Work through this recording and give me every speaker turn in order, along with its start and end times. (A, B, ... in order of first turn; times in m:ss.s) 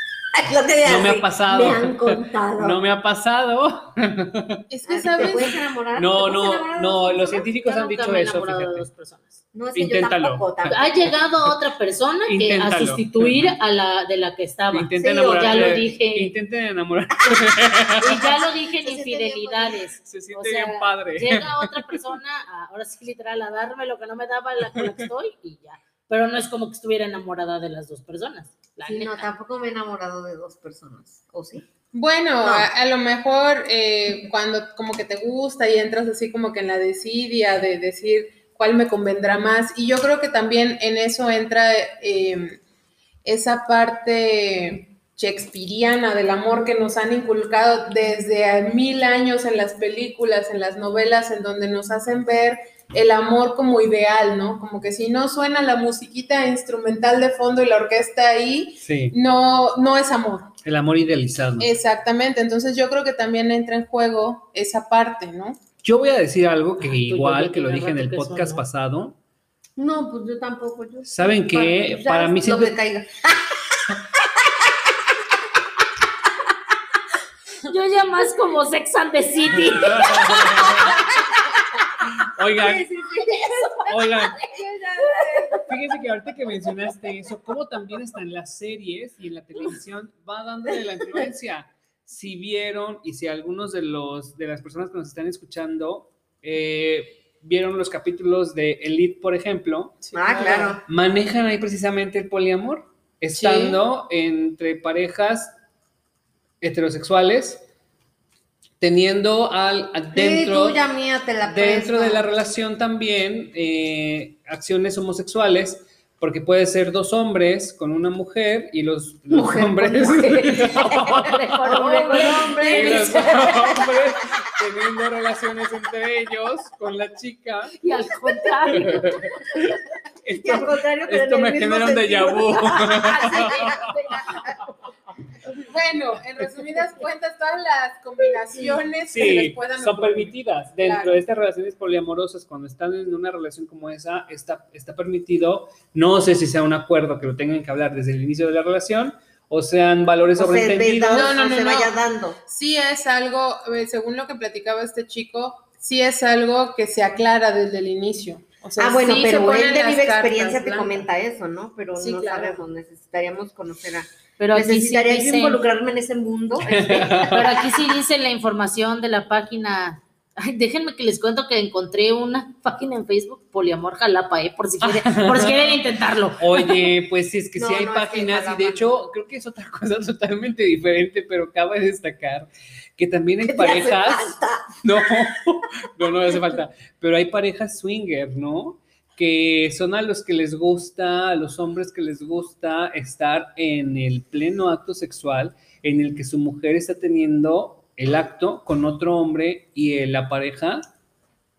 0:00.3-0:02.8 A
0:00.8-0:04.6 B
0:04.7-0:05.5 C
0:04.9-0:07.5 A
0:06.0-0:08.9 B
0:07.5-0:09.4 D
0:09.5-0:10.9 A
0:09.8-0:10.5 B
0:10.7-0:16.3 D
0:12.3-0:13.5 B
0:14.7-0:18.3 B
0:15.0-0:15.9 A
0:18.0-0:29.3 D
0:18.3-0:19.8 A
0:20.0-0:22.0 B
0:28.8-0:31.6 A
0:31.9-0:42.6 C
0:32.4-0:32.7 A
0:43.2-1:00.5 C
0:58.8-0:59.1 B
1:00.6-1:01.7 B
1:01.6-1:05.6 C
1:05.8-1:09.2 B
1:06.8-1:08.6 D
1:09.8-1:15.0 A
1:11.0-1:12.8 B
1:17.7-1:20.8 D
1:19.6-1:21.0 B
1:20.2-1:21.0 A
1:22.2-1:22.9 B
1:22.6-1:25.7 A
1:23.1-1:24.2 D
1:23.9-1:24.4 B
1:25.6-1:40.0 B
1:40.0-1:40.8 C
1:40.1-1:40.8 A
1:40.9-1:45.5 B
1:43.4-1:43.8 C
1:46.6-1:47.6 B
1:48.8-1:50.8 B
1:50.1-1:52.2 A
1:51.4-2:01.5 B
1:59.3-2:03.9 A
2:00.5-2:03.6 D
2:01.7-2:02.9 C
2:02.7-2:07.8 B
2:07.8-2:09.6 D
2:07.9-2:09.0 A
2:08.7-2:09.2 B
2:10.2-2:13.8 B
2:10.4-2:14.6 A
2:13.3-2:14.7 D
2:15.6-2:21.2 C
2:19.1-2:31.3 B
2:30.4-2:32.4 A
2:31.1-2:31.9 C
2:32.4-2:41.1 C
2:38.8-2:47.9 A
2:42.0-2:42.6 C
2:44.4-2:45.6 D
2:46.6-2:47.4 B
2:47.3-2:56.7 D
2:54.8-2:55.8 B
2:56.4-3:20.8 B
2:57.6-2:59.1 A
3:03.4-3:04.8 A